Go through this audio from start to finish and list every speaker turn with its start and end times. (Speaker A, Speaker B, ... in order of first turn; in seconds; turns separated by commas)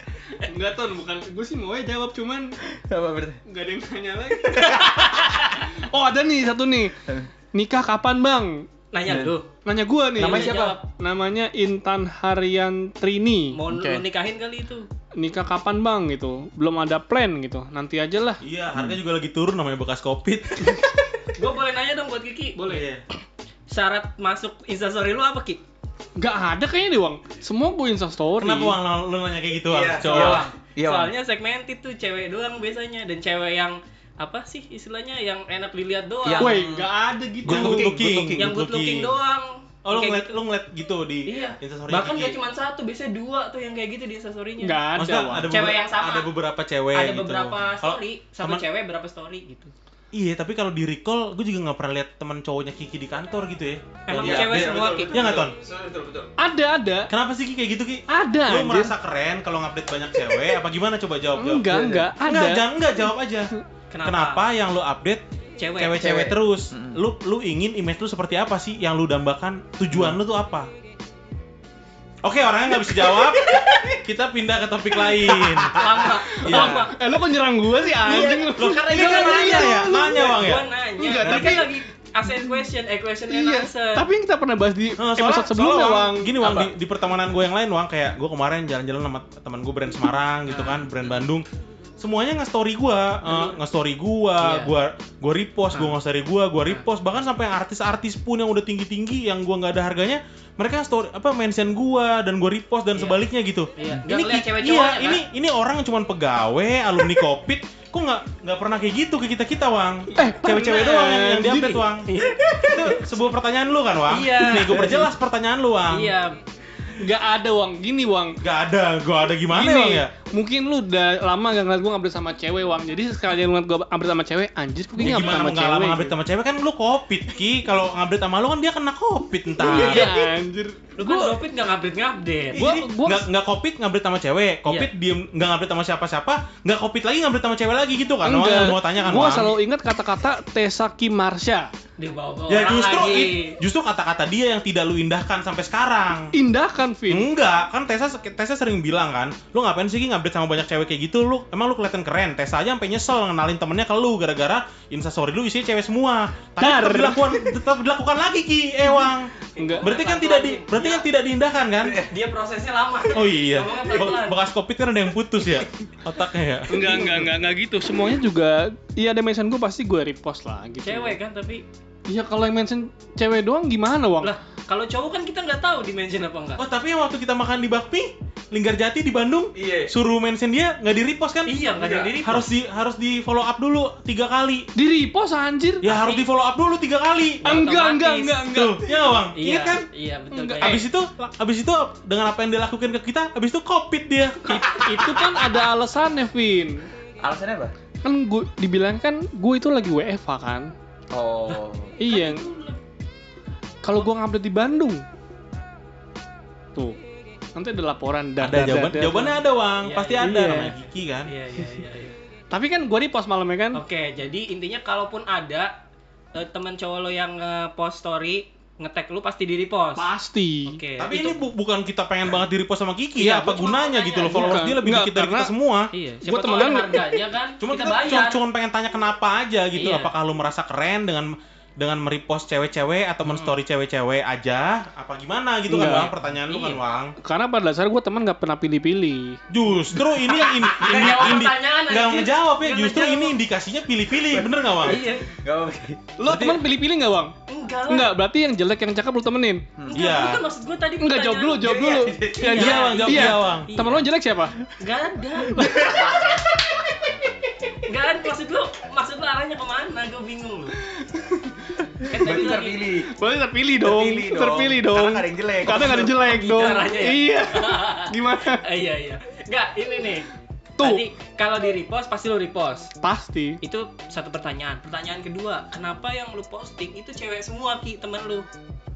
Speaker A: 0.4-2.5, Speaker B: 2.6-3.4, Speaker A: 3.5-4.8, Speaker B: 4.4-5.3, Speaker C: 5.2-5.5, Speaker A: 5.7-7.0, Speaker A: 7.5-8.7, Speaker C: 8.9-9.5, Speaker B: 9.0-9.3, Speaker A: 9.6-13.6, Speaker B: 10.2-10.8, Speaker C: 10.2-10.8, Speaker C: 13.5-14.9, Speaker B: 13.7-14.0, Speaker A: 15.2-18.4, Speaker D: 18.4-20.8, Speaker B: 18.7-19.0, Speaker C: 21.3-22.9, Speaker D: 22.6-23.0, Speaker C: 23.7-25.6, Speaker A: 26.2-28.8, Speaker D: 28.4-30.5, Speaker B: 29.7-31.1, Speaker C: 30.0-36.6, Speaker B: 36.2-36.9, Speaker A: 36.4-37.9, Speaker B: 37.4-38.5, Speaker D: 37.5-39.1, Speaker C: 38.4-40.4, Speaker D: 39.8-42.4, Speaker C: 41.2-44.8, Speaker A: 44.6-45.5, Speaker D: 45.0-48.6, Speaker C: 45.5-46.3, Speaker C: 46.9-49.7, Speaker D: 50.1-55.5, Speaker C: 54.1-55.4, Speaker B: 54.1-56.3, Speaker A: 56.4-57.1, Speaker D: 57.1-63.5, Speaker A: 58.1-58.9, Speaker A: 61.4-62.6, Speaker C: 63.9-64.4, Speaker D: 64.0-65.2, Speaker C: 65.6-66.0, Speaker D: 65.8-70.7, Speaker B: 66.0-67.0, Speaker B: 69.9-70.2, Speaker D: 72.2-75.8, Speaker B: 72.9-74.0, Speaker B: 75.1-76.2, Speaker C: 75.7-77.0, Speaker A: 76.3-80.5, Speaker D: 76.4-76.9, Speaker D: 78.0-80.7, Speaker B: 78.2-79.5, Speaker C: 79.4-84.0, Speaker A: 81.0-81.8, Speaker B: 81.2-81.5, Speaker D: 81.2-81.6, Speaker A: 83.3-86.4, Speaker D: 85.0-91.5, Speaker B: 86.4-86.7, Speaker C: 90.5-91.2, Speaker D: 92.0-116.1, Speaker C: 93.2-93.6, Speaker C: 94.4-94.7, Speaker C: 102.9-103.2, Speaker C: 103.8-105.2, Speaker A: 110.1-111.8, Speaker C: 112.1-113.0, Speaker C: 114.1-115.1, Speaker C: 115.9-116.4, Speaker A: 116.9-118.4, Speaker D: 118.4-120.1, Speaker A: 119.5-126.1, Speaker D: 125.0-130.1, Speaker C: 125.0-125.4, Speaker A: 129.6-130.9, Speaker C: 129.6-130.3, Speaker C: 131.0-132.6, Speaker D: 132.5-139.6, Speaker A: 132.5-133.3, Speaker A: 138.2-141.7, Speaker C: 142.0-143.6, Speaker D: 142.5-146.3, Speaker A: 146.3-147.3, Speaker D: 147.1-162.0, Speaker A: 156.6-157.5, Speaker C: 159.5-161.1, Speaker A: 159.6-159.9, Speaker B: 161.8-162.1, Speaker C: 162.1-164.4, Speaker D: 163.1-167.3, Speaker A: 166.7-171.2, Speaker C: 170.8-171.6, Speaker A: 172.1-174.3, Speaker C: 174.2-176.6, Speaker D: 176.6-181.7, Speaker B: 179.5-179.9, Speaker C: 181.4-182.5, Speaker B: 181.8-182.2, Speaker D: 182.2-184.7, Speaker A: 184.8-185.8, Speaker D: 185.8-187.6, Speaker C: 185.9-186.2, Speaker C: 187.4-188.5, Speaker A: 187.4-188.8, Speaker D: 188.5-189.8, Speaker C: 189.3-190.8, Speaker A: 190.3-190.8, Speaker D: 190.6-194.7, Speaker B: 194.5-195.4, Speaker A: 194.5-196.9, Speaker B: 197.2-197.7, Speaker A: 198.0-200.7, Speaker B: 201.1-201.9, Speaker C: 201.5-202.8, Speaker A: 202.0-202.4, Speaker A: 203.8-205.0, Speaker A: 207.6-209.3, Speaker D: 208.4-211.3, Speaker C: 209.8-210.3, Speaker A: 210.2-210.7, Speaker C: 211.3-212.2, Speaker A: 212.5-213.8, Speaker C: 213.7-215.7, Speaker C: 216.3-220.1, Speaker A: 219.9-220.8, Speaker C: 220.7-221.4, Speaker D: 221.0-225.9, Speaker A: 223.2-223.5, Speaker C: 223.3-224.6, Speaker A: 224.2-225.5, Speaker C: 225.9-228.4, Speaker A: 226.2-227.2, Speaker D: 227.6-237.1, Speaker C: 229.8-230.1, Speaker C: 233.2-233.5, Speaker A: 235.7-236.1, Speaker C: 235.8-236.8, Speaker A: 237.2-239.4, Speaker D: 239.5-245.0, Speaker B: 240.1-241.5, Speaker C: 240.4-243.4, Speaker B: 244.2-246.5, Speaker C: 244.8-245.3, Speaker A: 246.2-247.3, Speaker C: 247.5-248.2, Speaker A: 247.9-249.7, Speaker B: 249.8-250.0, Speaker D: 249.9-250.4, Speaker C: 249.9-251.8, Speaker A: 251.0-254.6, Speaker B: 251.6-252.8, Speaker C: 252.4-254.1, Speaker D: 252.6-253.7, Speaker C: 254.8-255.9, Speaker A: 255.5-256.1, Speaker B: 255.5-256.8, Speaker C: 257.9-260.8, Speaker A: 260.9-262.1, Speaker C: 262.1-262.9, Speaker B: 262.1-263.1, Speaker A: 263.1-268.6, Speaker B: 263.8-266.1, Speaker C: 265.7-270.2, Speaker A: 270.8-271.0, Speaker C: 270.8-272.9, Speaker A: 273.0-273.6, Speaker C: 273.6-278.5